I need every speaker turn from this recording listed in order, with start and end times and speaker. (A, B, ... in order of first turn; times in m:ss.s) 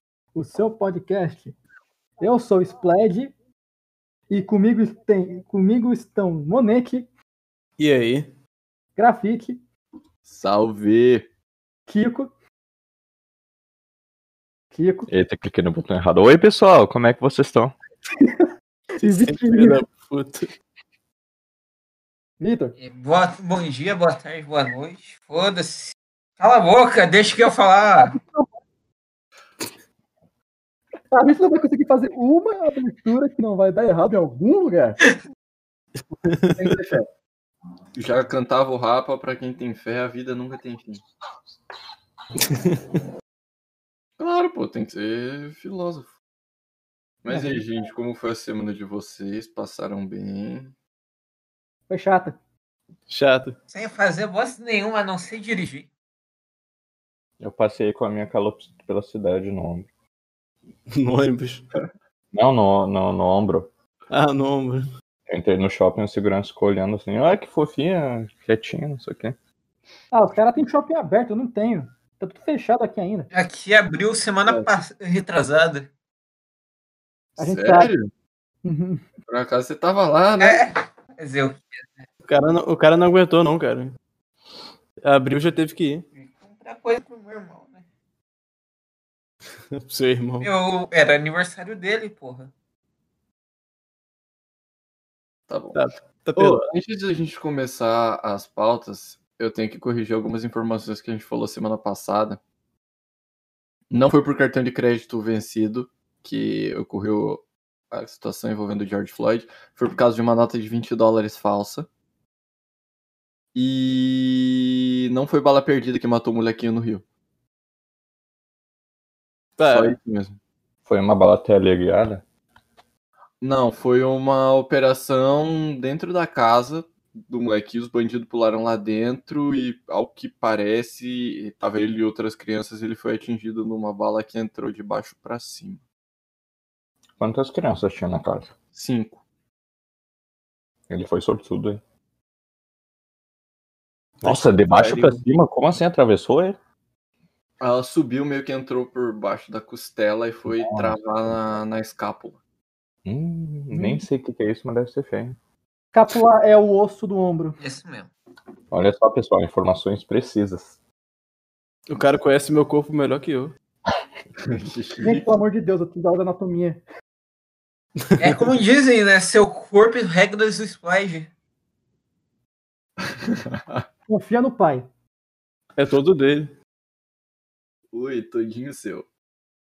0:00.4-0:01.6 A
0:02.2-0:03.3 A
0:04.3-0:07.1 A
0:07.8-0:08.3 B
0:09.0-0:09.6 A
0:10.3-0:11.3 C
0:11.9-0:12.3 A
0:14.7-0:15.1 A
0:15.1-0:17.8 D
0:19.0-0:19.8 A
0:19.3-0:20.5 B
0:22.4-0:22.8 A
0:22.8-0:28.2 E
0:31.1-0:35.0 A
0:36.1-0:36.8 B
0:36.6-0:37.1 C
0:38.0-0:41.0 C
0:42.4-0:42.8 B
0:44.2-0:46.1 C
0:47.2-0:50.7 C
0:47.3-0:47.6 A
0:51.9-0:52.4 A
0:53.1-0:53.6 B
0:53.7-0:55.9 E
0:57.4-0:59.9 D
1:00.9-1:01.7 B
1:02.3-1:03.7 D
1:04.1-1:04.9 B
1:05.3-1:09.4 D
1:10.1-1:13.3 A
1:13.3-1:15.9 E
1:14.5-1:14.7 C
1:17.4-1:17.9 A
1:17.4-1:18.1 C
1:18.6-1:19.0 A
1:19.3-1:20.6 C
1:20.4-1:22.0 E
1:22.2-1:23.9 B
1:25.0-1:26.0 B
1:26.2-1:27.8 E
1:29.7-1:30.5 B
1:30.4-1:32.5 E
1:35.5-1:35.8 C
1:35.8-1:36.7 B
1:36.4-1:42.4 C
1:43.9-1:51.9 C
1:53.5-1:57.0 C
1:59.6-2:00.0 B
1:59.7-2:00.4 C
2:00.8-2:02.2 D
2:03.4-2:15.8 C
2:17.2-2:18.5 D
2:18.8-2:19.2 C
2:20.9-2:21.8 D
2:24.2-2:25.1 B
2:24.2-2:26.6 D
2:24.7-2:25.1 C
2:27.6-2:32.4 C
2:30.5-2:31.0 D
2:33.0-2:35.4 D
2:33.7-2:34.0 A
2:35.9-2:37.6 A
2:37.6-2:38.1 E
2:38.7-2:40.8 D
2:41.9-2:43.5 B
2:44.4-2:45.3 C
2:45.0-2:46.8 A
2:48.0-2:48.3 B
2:48.2-2:51.3 E
2:53.0-2:53.8 C
2:54.1-2:54.9 A
2:55.8-2:56.5 B
2:57.9-2:59.1 C